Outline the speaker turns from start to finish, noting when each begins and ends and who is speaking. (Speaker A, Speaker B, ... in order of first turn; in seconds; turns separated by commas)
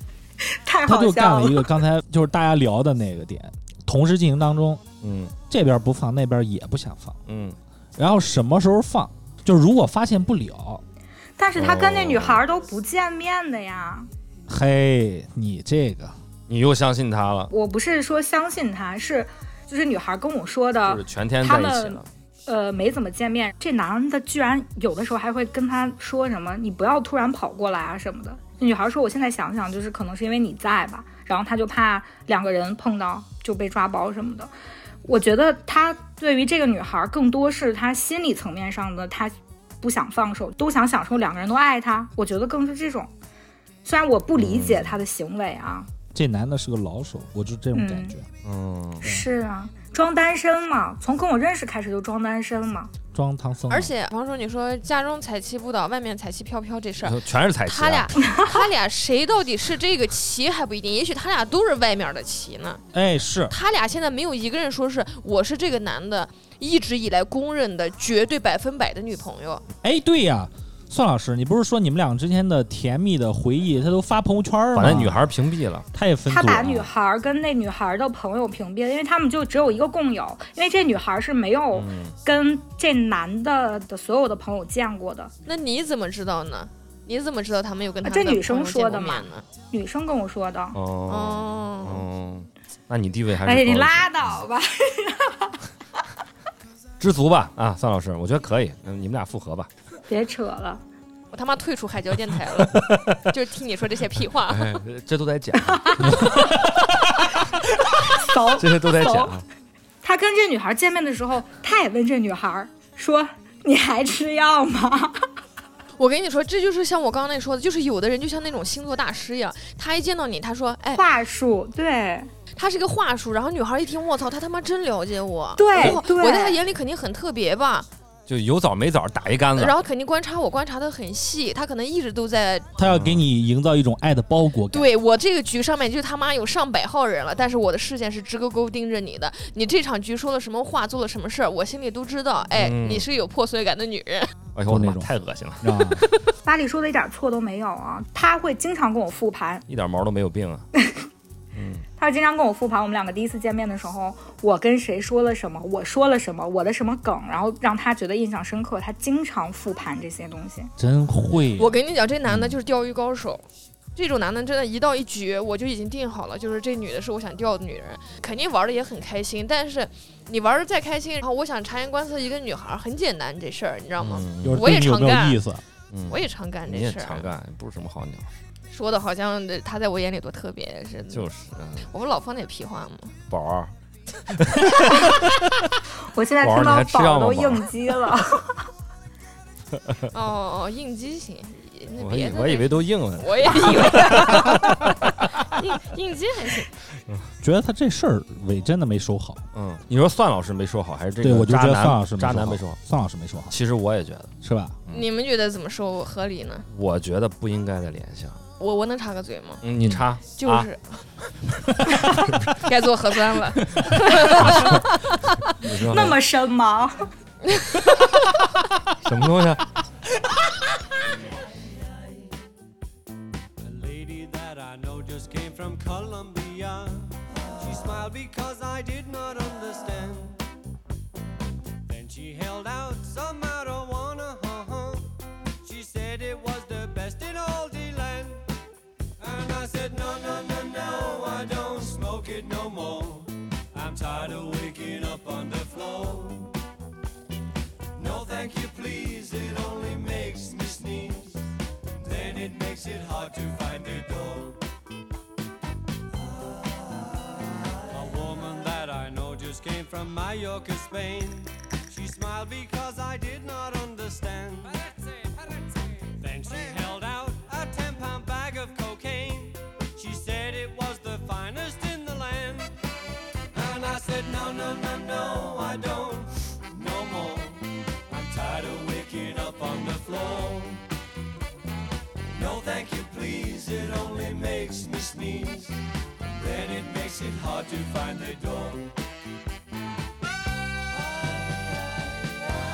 Speaker A: 0.4-1.8, Speaker B: 0.9-4.8, Speaker C: 5.0-5.3, Speaker B: 5.5-7.2, Speaker C: 7.3-7.6, Speaker B: 8.0-10.8, Speaker A: 11.4-14.1, Speaker C: 11.6-12.4, Speaker B: 14.5-16.2, Speaker C: 16.5-17.5, Speaker A: 17.5-34.5, Speaker C: 20.9-22.1, Speaker A: 35.0-43.1, Speaker A: 43.9-45.9, Speaker C: 44.4-45.0, Speaker B: 46.1-48.3, Speaker A: 47.7-48.1, Speaker C: 48.4-49.1, Speaker B: 49.0-49.3, Speaker A: 49.0-52.9, Speaker B: 53.1-53.9, Speaker D: 53.7-62.8, Speaker C: 57.0-58.2, Speaker A: 58.3-58.5, Speaker B: 62.9-63.5, Speaker D: 63.5-69.6, Speaker B: 69.8-75.2, Speaker C: 74.7-75.9, Speaker B: 75.9-76.9, Speaker A: 76.3-85.3, Speaker C: 81.7-82.2, Speaker D: 85.5-89.5, Speaker A: 88.0-90.8, Speaker C: 90.7-94.1, Speaker D: 91.1-92.0, Speaker A: 93.4-95.6, Speaker C: 97.0-99.7, Speaker A: 100.1-100.8, Speaker D: 101.3-104.8, Speaker C: 102.6-103.2, Speaker C: 104.5-106.6, Speaker A: 105.6-106.5, Speaker B: 106.2-106.8, Speaker A: 108.0-109.3, Speaker C: 108.0-109.4, Speaker A: 110.0-115.3, Speaker D: 116.0-121.0, Speaker A: 120.9-122.3, Speaker D: 122.5-127.9, Speaker A: 125.6-126.6, Speaker C: 128.3-129.8, Speaker D: 129.6-132.7, Speaker B: 132.8-134.9, Speaker C: 132.8-133.2, Speaker D: 134.7-144.3, Speaker C: 142.6-143.1, Speaker C: 144.6-146.0, Speaker B: 144.7-145.1, Speaker B: 145.6-146.0, Speaker A: 146.4-149.7, Speaker C: 149.7-150.7, Speaker A: 150.8-151.1, Speaker C: 151.5-151.8, Speaker A: 152.0-160.7, Speaker B: 160.8-161.8, Speaker D: 161.5-175.4, Speaker C: 162.3-162.6, Speaker C: 174.0-174.7, Speaker B: 174.4-175.6, Speaker C: 175.9-178.3, Speaker D: 176.1-177.3, Speaker D: 178.7-181.3, Speaker C: 181.1-181.9, Speaker D: 181.8-183.2, Speaker C: 183.3-185.6, Speaker A: 186.1-188.6, Speaker C: 186.4-187.7, Speaker C: 189.8-190.1, Speaker D: 190.1-196.7, Speaker C: 192.0-195.2, Speaker B: 197.4-199.4, Speaker C: 199.5-202.8, Speaker B: 201.2-203.6, Speaker C: 203.5-204.3, Speaker B: 204.4-204.8, Speaker D: 204.9-206.7, Speaker C: 206.7-208.4, Speaker D: 208.6-209.7, Speaker C: 209.6-210.7, Speaker D: 210.4-211.1, Speaker B: 211.8-212.1, Speaker D: 212.1-215.5, Speaker C: 212.2-212.5, Speaker C: 214.3-214.8, Speaker C: 215.6-216.2, Speaker A: 215.9-217.1, Speaker D: 217.5-218.2, Speaker C: 218.9-219.7, Speaker E: 223.6-230.4, Speaker E: 231.8-238.5, Speaker E: 239.2-246.6, Speaker E: 247.9-254.6, Speaker E: 256.6-257.1, Speaker E: 257.9-272.8, Speaker E: 273.5-280.9, Speaker E: 282.3-288.9